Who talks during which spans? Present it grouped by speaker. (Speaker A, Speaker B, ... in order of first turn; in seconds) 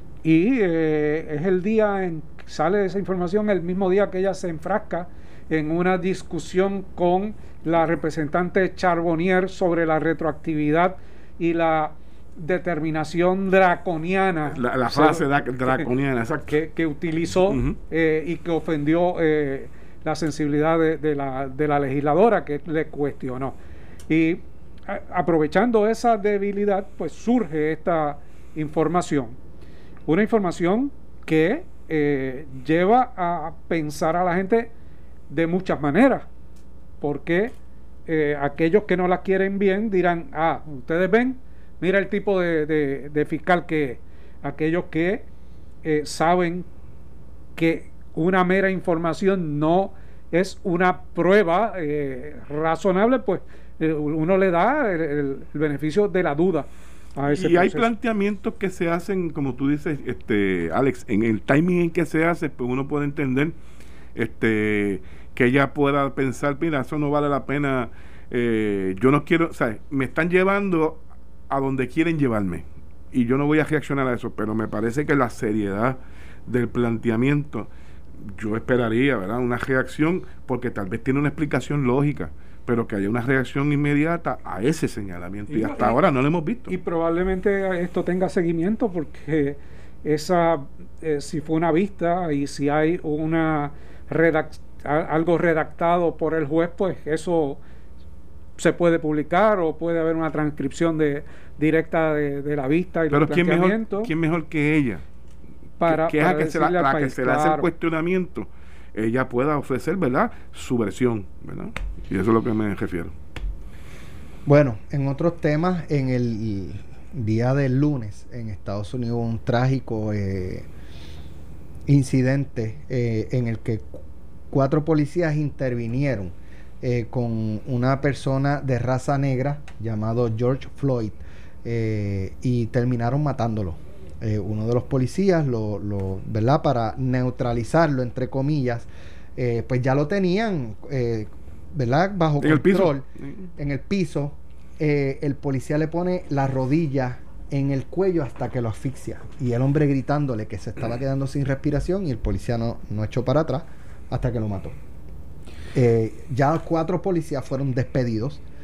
Speaker A: 0.2-15.8, 16.5-23.6, 24.1-29.4, 30.1-34.7, 35.3-36.3, 37.0-37.5, 38.1-45.2, 45.8-46.7, 47.6-57.9, 85.5-86.0, 86.7-97.6, 98.6-104.1, 105.8-107.7
Speaker B: 14.5-16.6, 17.5-17.8, 57.3-63.5, 64.1-77.7, 78.2-86.7, 103.1-105.0, 105.8-113.1, 142.4-143.5
Speaker C: 114.5-120.7, 121.9-143.0, 143.6-154.8, 155.7-158.4